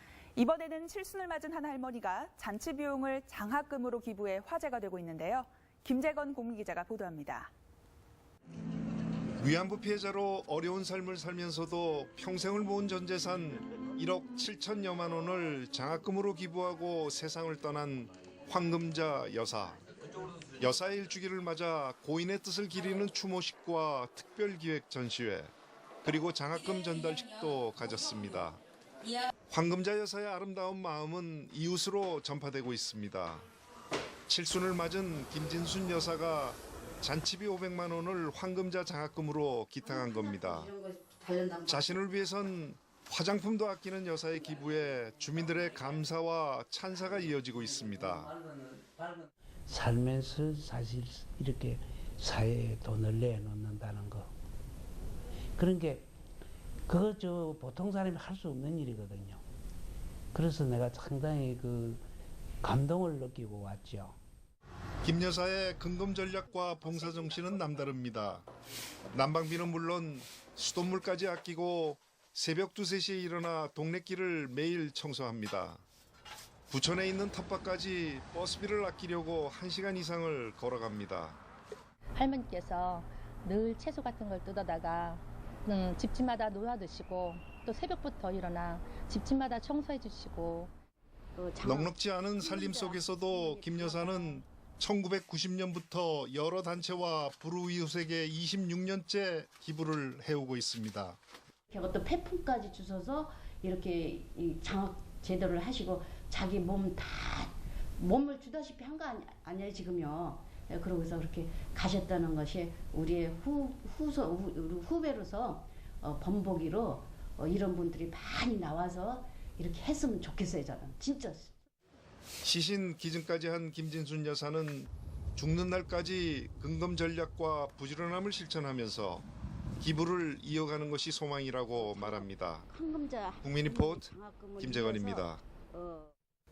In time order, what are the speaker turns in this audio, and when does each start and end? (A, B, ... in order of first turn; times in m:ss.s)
0:00.3-0:07.5 A
0:09.4-0:19.8 B
0:20.6-0:25.5 B
0:26.0-0:28.6 B
0:29.5-0:33.4 B
0:34.3-0:40.7 B
0:39.9-0:41.9 C
0:41.6-0:48.3 B
0:47.8-0:54.3 D
0:55.6-0:56.1 D
0:56.9-0:59.4 D
1:00.3-1:02.0 D
1:02.6-1:04.2 D
1:05.0-1:08.4 B
1:09.1-1:15.8 B
1:16.7-1:21.4 B
1:22.1-1:30.7 E
1:31.4-1:34.4 C
1:31.6-1:41.2 B
1:41.7-2:01.5 C
2:02.4-2:09.2 B
2:09.8-2:12.7 B
2:11.7-2:16.1 C
2:13.4-2:15.4 B